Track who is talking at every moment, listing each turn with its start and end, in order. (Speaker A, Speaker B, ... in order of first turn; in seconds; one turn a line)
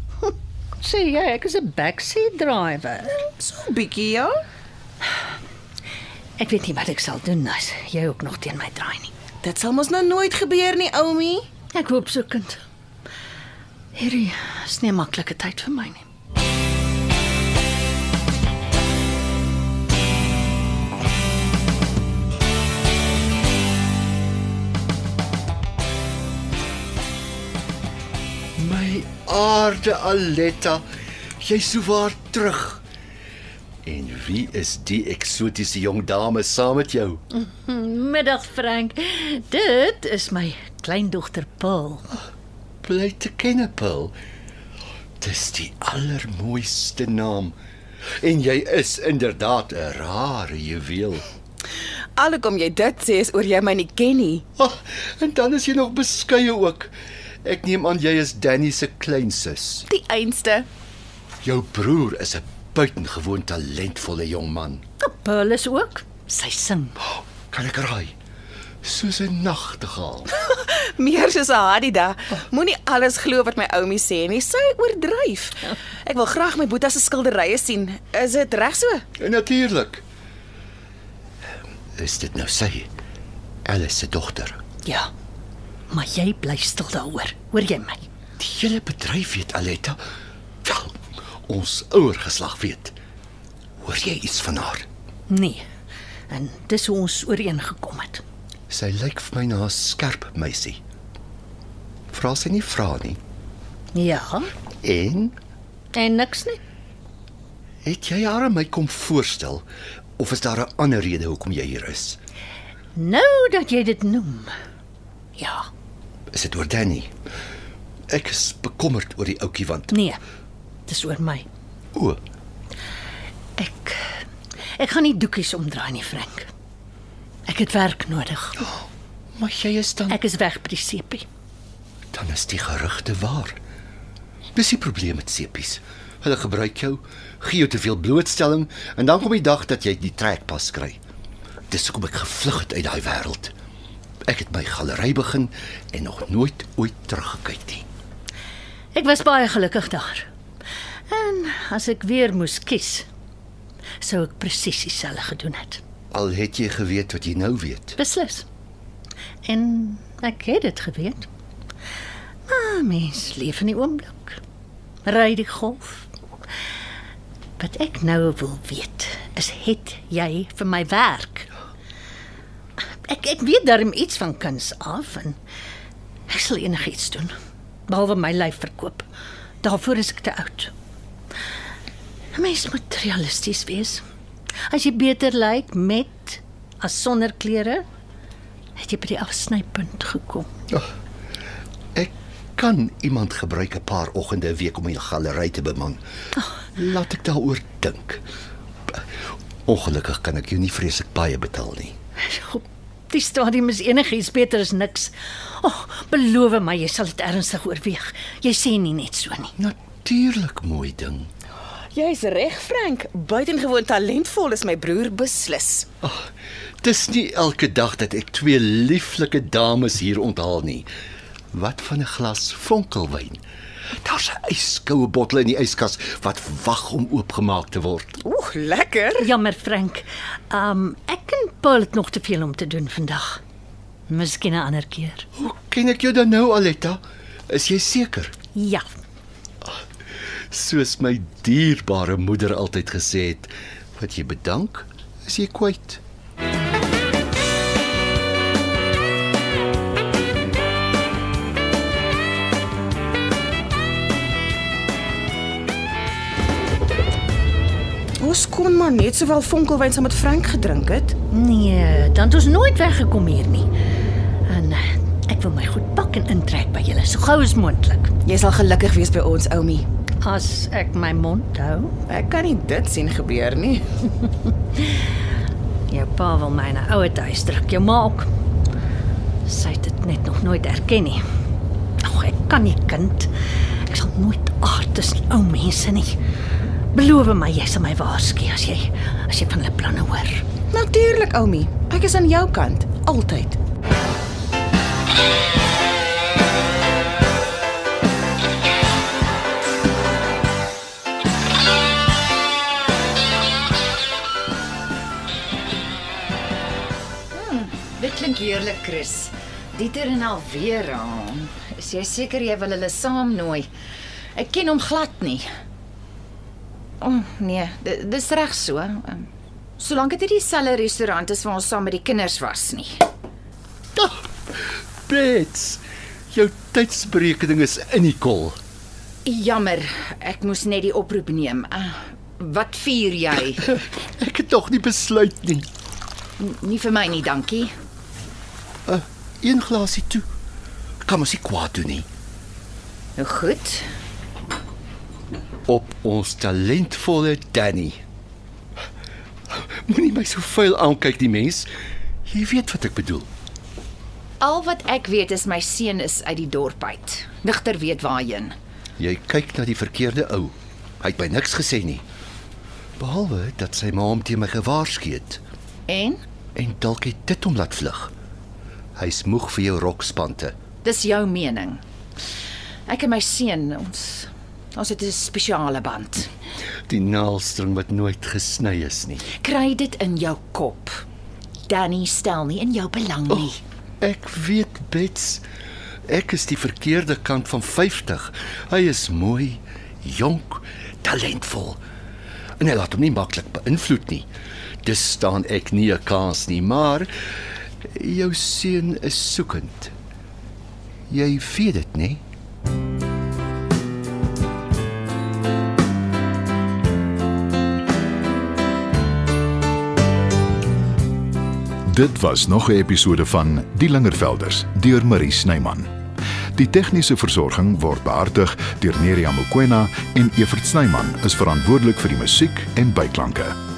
Speaker A: 0.2-3.1
Speaker B: 3.4-4.3
Speaker A: 6.4-9.1
Speaker B: 9.4-11.5
Speaker A: 11.7-12.6
Speaker A: 13.9-16.0
Speaker C: 28.6-30.8
Speaker C: 31.4-32.8
Speaker C: 33.8-37.2
Speaker A: 37.3-42.1
Speaker C: 42.8-44.1
Speaker C: 45.2-47.5
Speaker C: 48.2-51.2
Speaker B: 52.1-54.4
Speaker C: 54.6-56.9
Speaker C: 57.4-59.9
Speaker B: 59.9-60.7
Speaker C: 61.4-64.8
Speaker A: 65.0-67.0
Speaker C: 67.5-68.1
Speaker C: 68.8-70.3
Speaker B: 70.3-79.0
Speaker C: 79.2-80.0
Speaker C: 82.0-82.9
Speaker C: 83.7-84.6
Speaker A: 85.9-88.0
Speaker C: 88.4-90.0
Speaker C: 90.6-92.9
Speaker C: 93.8-94.8
Speaker A: 95.3-95.6
Speaker A: 96.3-98.2
Speaker C: 98.7-100.8
Speaker C: 102.1-103.2
Speaker A: 103.9-104.5
Speaker C: 104.8-105.3
Speaker A: 105.9-106.6
Speaker C: 107.8-109.6
Speaker C: 110.2-112.2
Speaker A: 112.9-114.5
Speaker A: 115.4-115.7
Speaker C: 116.3-117.1
Speaker C: 118.1-119.9
Speaker A: 119.9-120.2
Speaker A: 120.9-121.5
Speaker A: 123.6-124.2
Speaker A: 124.8-126.5
Speaker A: 127.5-128.6
Speaker C: 128.6-130.2
Speaker A: 130.1-131.2
Speaker C: 132.1-133.6
Speaker C: 134.5-141.0
Speaker C: 141.7-143.5
Speaker C: 144.3-147.8
Speaker A: 148.9-150.3
Speaker A: 151.1-153.1
Speaker A: 154.0-155.8
Speaker C: 156.1-157.9
Speaker A: 158.0-158.4
Speaker A: 159.4-161.3
Speaker A: 162.5-164.4
Speaker A: 165.0-166.1
Speaker A: 167.6-171.5
Speaker A: 173.0-175.4
Speaker A: 176.3-177.3
Speaker A: 177.9-179.0
Speaker A: 179.6-180.7
Speaker A: 182.3-184.0
Speaker A: 184.7-187.8
Speaker A: 188.8-190.5
Speaker C: 191.9-196.0
Speaker C: 196.7-198.2
Speaker C: 199.7-201.9
Speaker A: 202.2-209.5
Speaker C: 209.6-211.3
Speaker B: 211.9-215.9
Speaker C: 216.0-216.3
Speaker C: 216.8-220.9
Speaker C: 221.5-223.4
Speaker C: 224.0-228.2
Speaker B: 228.2-229.3
Speaker A: 229.2-233.4
Speaker A: 234.1-235.2
Speaker C: 235.4-238.3
Speaker A: 238.5-238.9
Speaker C: 240.5-246.0
Speaker B: 258.2-261.1
Speaker A: 261.3-263.7
Speaker A: 264.5-268.1
Speaker B: 268.2-269.8
Speaker A: 270.2-271.9
Speaker B: 272.1-273.8
Speaker A: 274.8-275.1
Speaker A: 275.9-278.3
Speaker A: 279.4-281.2
Speaker A: 282.0-286.2
Speaker A: 286.9-290.4
Speaker B: 290.7-293.6
Speaker D: 307.3-313.7
Speaker D: 314.3-315.4
Speaker D: 317.0-323.0
Speaker C: 323.9-328.6
Speaker D: 329.2-333.7
Speaker C: 333.7-335.7
Speaker D: 336.4-337.7
Speaker C: 338.9-340.2
Speaker C: 341.0-342.1
Speaker D: 343.2-343.9
Speaker C: 345.7-348.0
Speaker C: 349.5-351.7
Speaker C: 352.3-353.3
Speaker D: 354.4-358.5
Speaker C: 359.0-362.0
Speaker C: 363.0-365.4
Speaker D: 365.9-366.2
Speaker C: 366.6-368.1
Speaker C: 368.9-370.6
Speaker D: 370.8-371.8
Speaker D: 372.9-376.3
Speaker C: 376.9-379.2
Speaker D: 379.2-381.0
Speaker D: 381.7-383.6
Speaker C: 383.3-385.4
Speaker C: 386.1-391.8
Speaker C: 392.6-394.3
Speaker C: 394.8-397.1
Speaker C: 397.8-399.9
Speaker C: 401.1-402.2
Speaker E: 411.9-415.9
Speaker E: 416.6-423.6